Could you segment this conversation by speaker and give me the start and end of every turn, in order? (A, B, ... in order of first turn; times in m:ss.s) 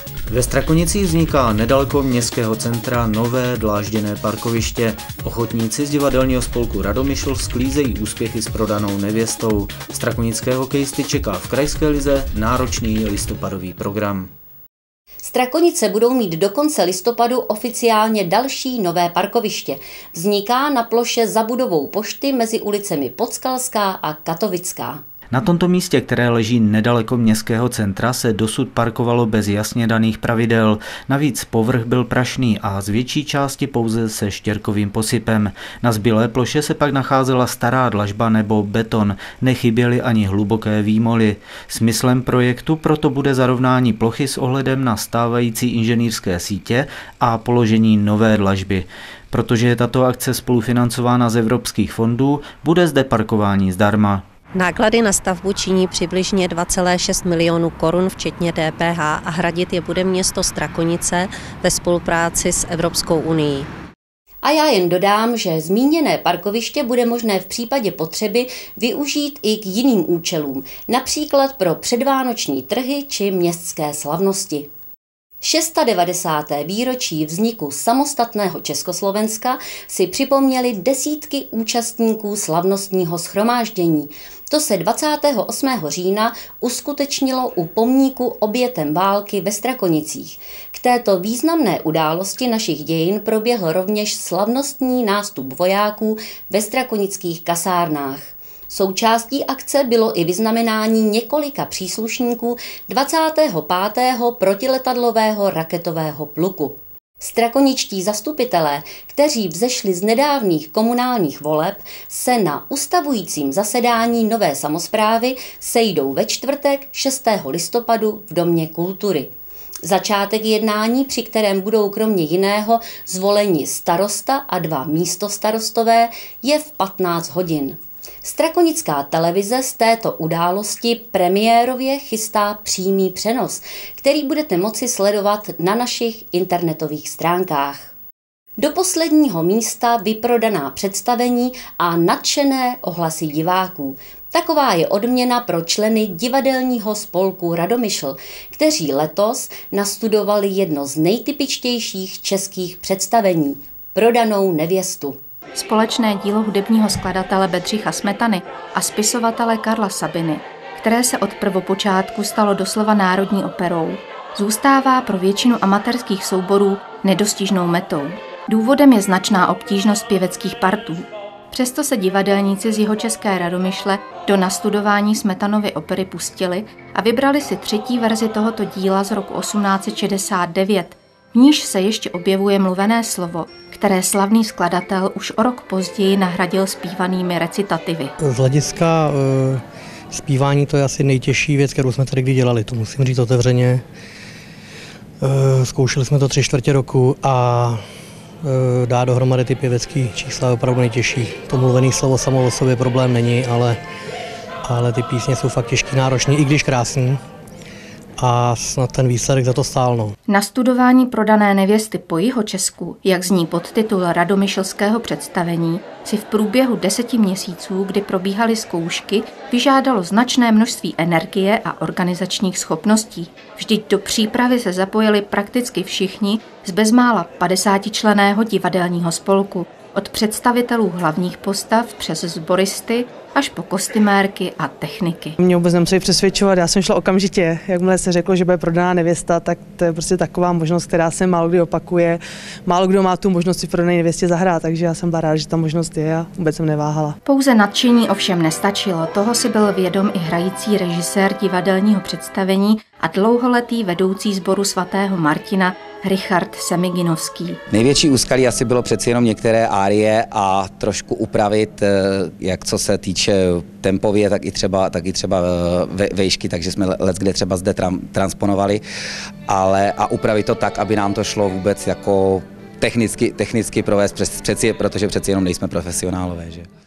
0:00.3-0:14.3 A
0:15.2-0:25.0 B
0:25.3-0:54.2 A
0:54.5-1:03.7 C
1:04.4-1:14.7 B
1:15.4-1:59.3 B
1:59.8-2:17.9 B
2:18.6-2:35.2 B
2:35.6-3:08.1 D
3:08.2-3:13.8 E
3:15.2-3:17.8 E
3:18.4-3:23.8 E
3:24.7-3:27.2 E
3:28.2-3:30.2 E
3:30.3-3:55.4 D
3:55.4-4:07.2 F
4:07.2-4:17.6 D
4:17.7-4:28.8 G
4:29.5-4:36.6 G